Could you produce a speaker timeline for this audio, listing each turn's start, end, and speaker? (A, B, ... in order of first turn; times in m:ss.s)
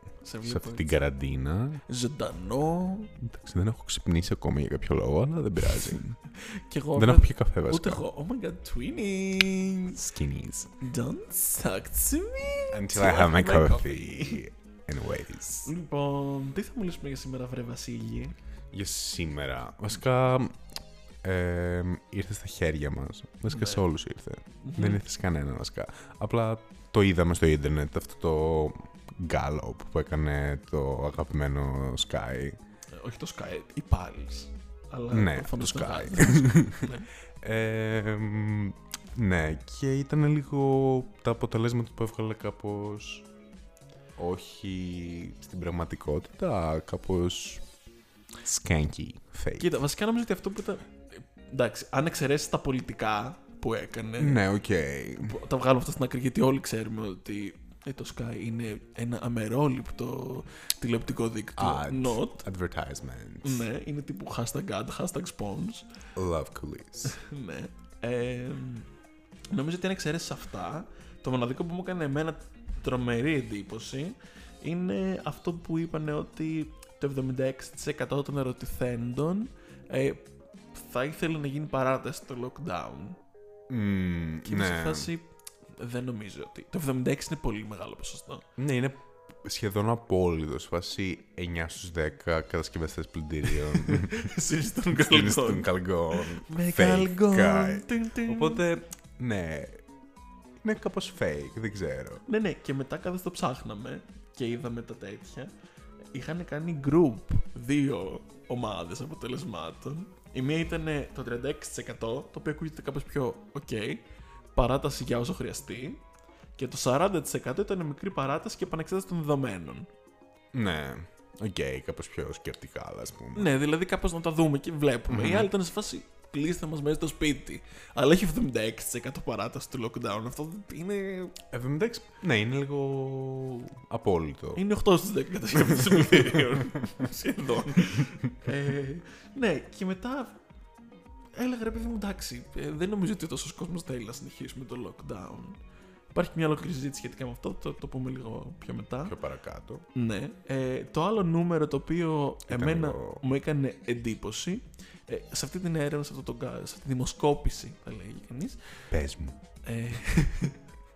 0:00.2-0:01.0 A
0:00.4-0:01.8 B
0:01.9-0:03.1 A
0:03.2-0:06.2 B
0:06.3-0:10.0 A
0:07.0-0:08.0 B
0:09.9-0:10.7 B
0:10.8-0:14.4 A
0:12.7-0:15.7 B
0:15.6-0:18.3 A
0:18.7-0:20.6 B
0:21.2-0:32.6 B
0:23.5-0:23.8 A
0:24.6-0:25.0 A
0:32.9-0:37.1 A
0:35.1-0:43.3 B
0:44.2-0:47.6 B
0:48.4-0:49.7 B
0:49.6-0:54.4 A
0:54.2-0:55.4 B
0:55.2-1:02.4 A
1:01.6-1:03.6 B
1:03.4-1:05.8 A
1:06.2-1:07.2 B
1:07.1-1:08.9 A
1:09.5-1:23.2 A
1:23.7-1:25.1 B
1:24.4-1:28.4 A
1:28.6-1:34.3 B
1:33.5-1:38.6 A
1:34.9-1:39.8 B
1:40.6-1:42.2 B
1:42.3-1:45.5 A
1:46.1-1:54.0 A
1:54.5-1:56.0 A
1:56.6-1:59.9 A
2:00.5-2:03.5 B
2:03.3-2:11.4 A
2:05.1-2:05.5 B
2:11.5-2:14.6 B
2:14.5-2:20.4 A
2:15.6-2:16.7 B
2:21.4-2:25.6 A
2:26.1-2:29.2 A
2:29.0-2:29.9 B
2:29.9-2:38.6 A
2:32.5-2:33.2 B
2:38.9-2:39.4 B
2:39.6-2:40.6 A